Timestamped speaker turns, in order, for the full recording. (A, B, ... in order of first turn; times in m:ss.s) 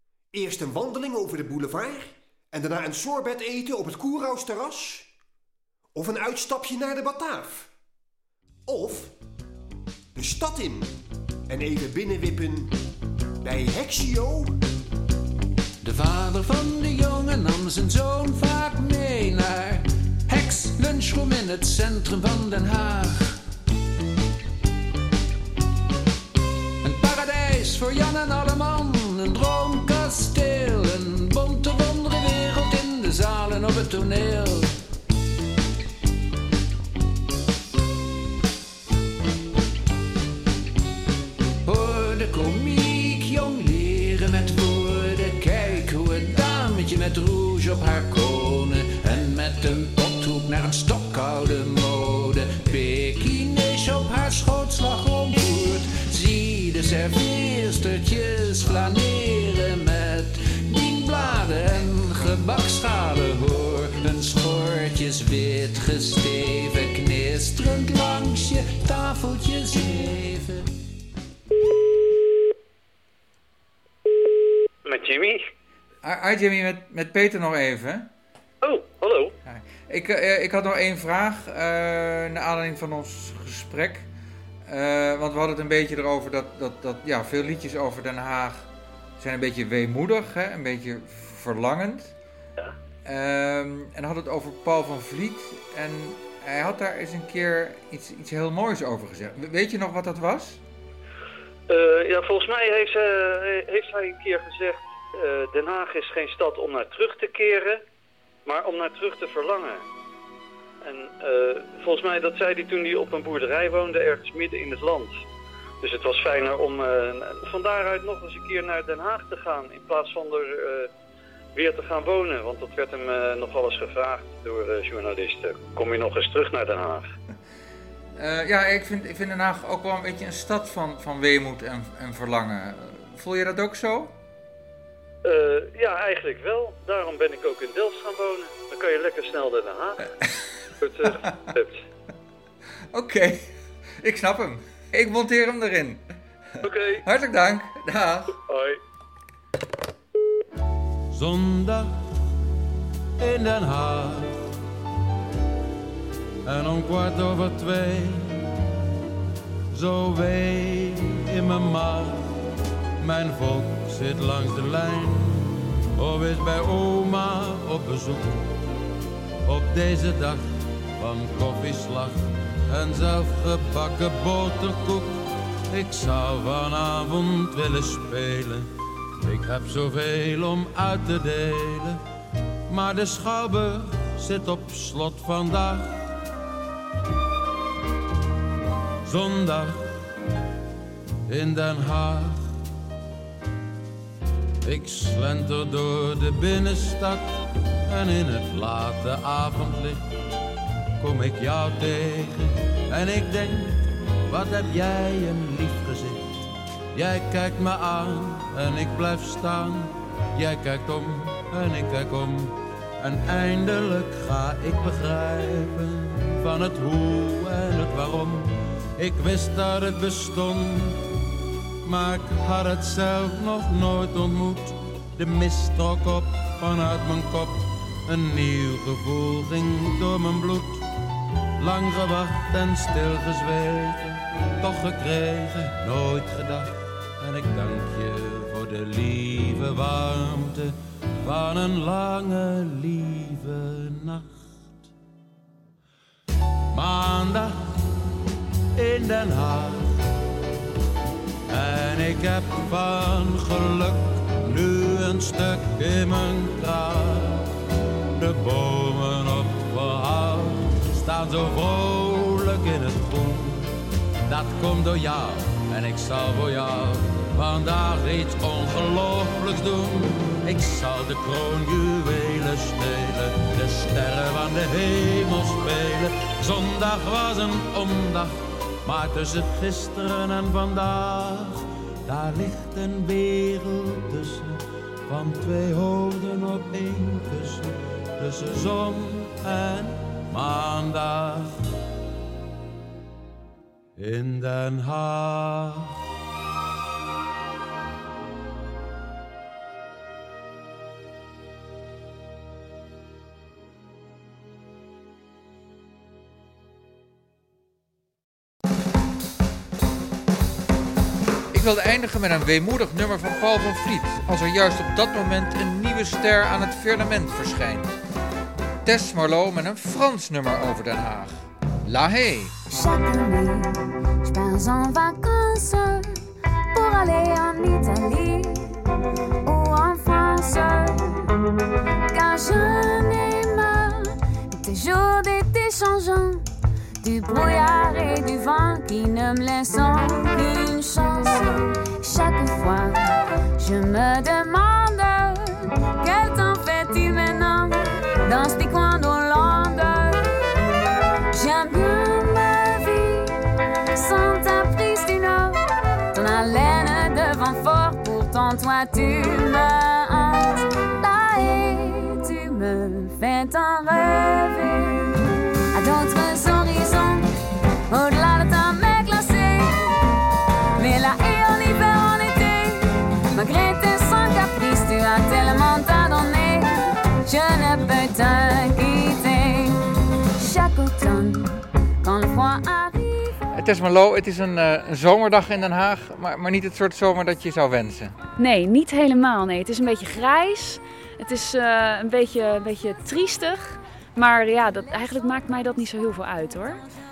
0:00.3-0:05.1 A
0:05.9-0:07.7 A
0:08.7-0:09.1 A
0:10.1-0:10.9 A
0:11.5-0:12.8 A
0:13.4-0:14.6 A
0:15.8-0:23.4 B
0:26.8-0:34.8 B
0:41.6-1:10.7 B
1:14.8-1:15.4 C
1:16.0-1:18.1 D
1:18.6-1:19.3 C
1:19.4-1:24.1 D
1:24.6-1:28.7 D
1:29.2-1:32.1 D
1:33.0-1:40.6 D
1:41.7-1:47.8 C
1:48.4-1:49.8 C
1:50.8-1:55.2 C
1:55.8-2:00.9 C
2:01.6-2:07.1 C
2:08.2-2:14.1 D
2:15.2-2:20.0 C
2:20.8-2:21.8 C
2:22.9-2:26.0 D
2:26.6-2:27.0 C
2:27.0-2:28.4 D
2:28.5-2:28.8 C
2:31.1-2:32.0 E
2:33.2-2:34.4 E
2:36.4-2:38.4 E
2:39.7-2:42.3 E
2:43.0-2:48.6 E
2:49.4-3:02.0 E
3:02.7-3:06.2 E
3:09.0-3:10.0 E
3:11.3-3:12.5 E
3:14.6-3:20.0 E
3:21.0-3:41.1 E
3:41.8-3:50.8 E
3:51.6-4:04.5 E
4:06.7-4:07.7 E
4:08.7-4:10.0 E
4:11.5-4:17.5 E
4:18.1-4:23.7 E
4:24.2-4:51.6 E
4:54.0-4:56.0 E
5:11.5-5:18.0 D
5:18.8-5:22.5 D
5:22.7-5:28.8 F
5:29.4-5:31.3 F
5:32.1-5:36.4 F
5:37.0-5:50.2 F
5:51.3-5:53.4 F
5:53.9-5:55.6 F
5:56.1-6:05.2 F
6:05.7-6:07.3 F
6:07.9-6:10.0 F
6:10.8-6:19.8 F
6:20.4-6:23.4 F
6:23.5-6:28.1 D
6:28.4-6:36.8 G